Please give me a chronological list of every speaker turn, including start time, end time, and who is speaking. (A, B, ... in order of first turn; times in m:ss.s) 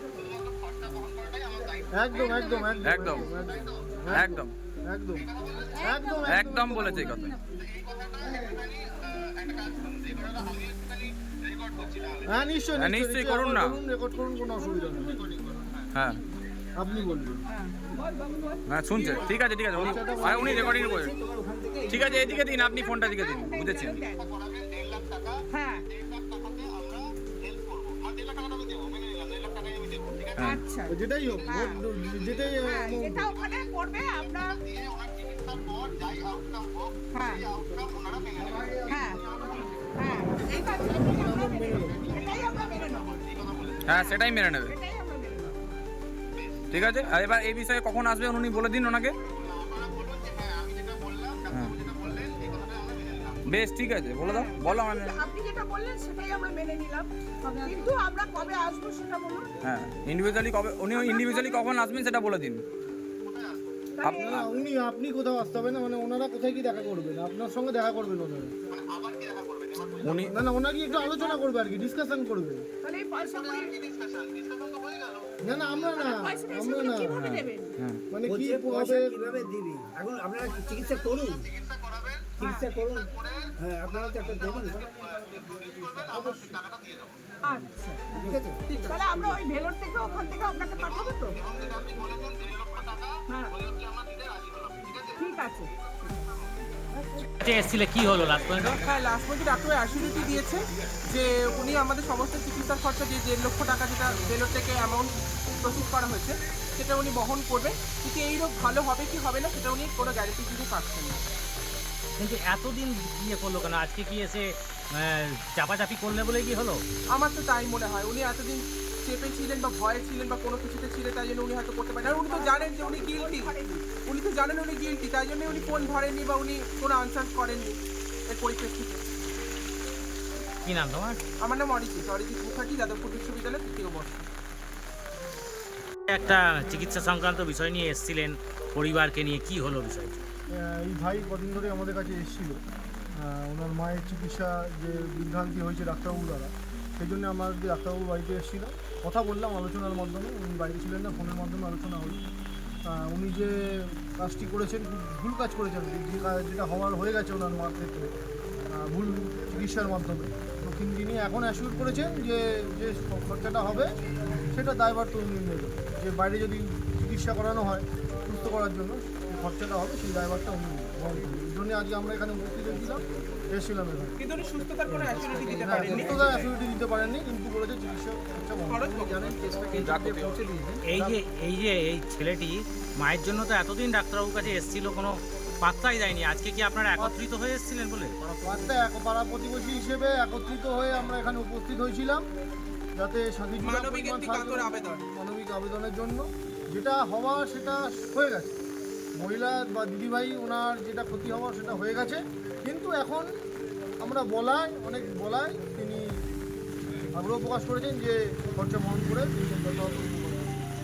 0:00.3-0:01.8 A
0:01.9-0:07.3 B
0:02.2-0:02.6 C
0:02.8-0:03.3 D
0:04.1-0:04.5 D
0:05.4-0:05.6 A
0:05.9-0:06.3 C
0:06.2-0:07.4 D
0:07.7-0:12.2 A
0:12.3-0:15.2 B
0:12.8-0:13.8 D
0:15.2-0:15.8 A
0:15.9-0:16.2 D
0:16.8-0:17.4 B
0:18.7-0:21.1 D
0:19.0-0:19.3 E
0:19.8-0:22.8 F
0:19.8-0:20.5 B
0:20.1-0:20.4 C
0:21.9-0:24.0 D
0:22.8-0:24.2 C
0:24.3-0:25.3 A
0:25.9-0:30.6 A
0:30.4-0:30.6 D
0:30.4-0:30.9 C
0:30.9-0:33.3 B
0:32.8-0:34.4 C
0:34.6-0:38.6 A
0:38.4-0:39.7 B
0:38.9-0:39.2 C
0:40.1-0:41.7 C
0:40.6-0:42.1 B
0:40.7-0:43.8 A
0:42.2-0:43.2 C
0:43.8-0:44.7 D
0:44.0-0:45.6 C
0:46.7-0:49.2 D
0:49.6-0:53.4 A
0:53.5-0:55.3 D
0:54.2-0:59.5 C
0:59.6-1:02.6 D
1:00.9-1:01.7 C
1:03.3-1:03.5 A
1:04.0-1:04.3 C
1:04.0-1:04.5 D
1:04.1-1:08.5 B
1:08.8-1:10.2 A
1:10.0-1:10.3 D
1:10.2-1:12.6 B
1:12.9-1:13.7 C
1:13.2-1:15.2 A
1:15.4-1:17.2 B
1:16.0-1:17.7 C
1:17.1-1:18.0 D
1:18.1-1:19.2 B
1:18.2-1:21.5 F
1:21.4-1:22.3 A
1:22.4-1:23.1 F
1:23.0-1:23.4 A
1:23.6-1:24.9 F
1:24.1-1:27.1 A
1:26.0-1:26.5 F
1:27.5-1:28.0 C
1:28.1-1:28.6 F
1:28.7-1:29.4 E
1:28.9-1:31.3 C
1:30.8-1:33.1 A
1:33.6-1:35.5 A
1:35.2-1:35.6 C
1:37.4-1:38.8 G
1:38.8-1:51.2 E
1:52.2-1:56.8 G
1:57.1-2:07.8 E
2:02.3-2:03.8 C
2:08.3-2:09.0 E
2:10.6-2:11.2 G
2:11.4-2:14.3 E
2:16.1-2:20.2 G
2:20.6-2:22.6 B
2:23.2-2:32.2 B
2:32.9-2:38.1 B
2:38.8-2:43.9 B
2:44.5-2:54.2 B
2:54.2-2:56.5 E
2:54.9-3:01.2 B
2:58.7-2:59.4 E
2:59.8-3:00.4 D
3:00.9-3:08.2 G
3:08.4-3:12.2 B
3:13.0-3:18.5 B
3:13.6-3:15.0 E
3:19.2-3:23.3 B
3:24.0-3:26.1 B
3:27.2-3:30.5 B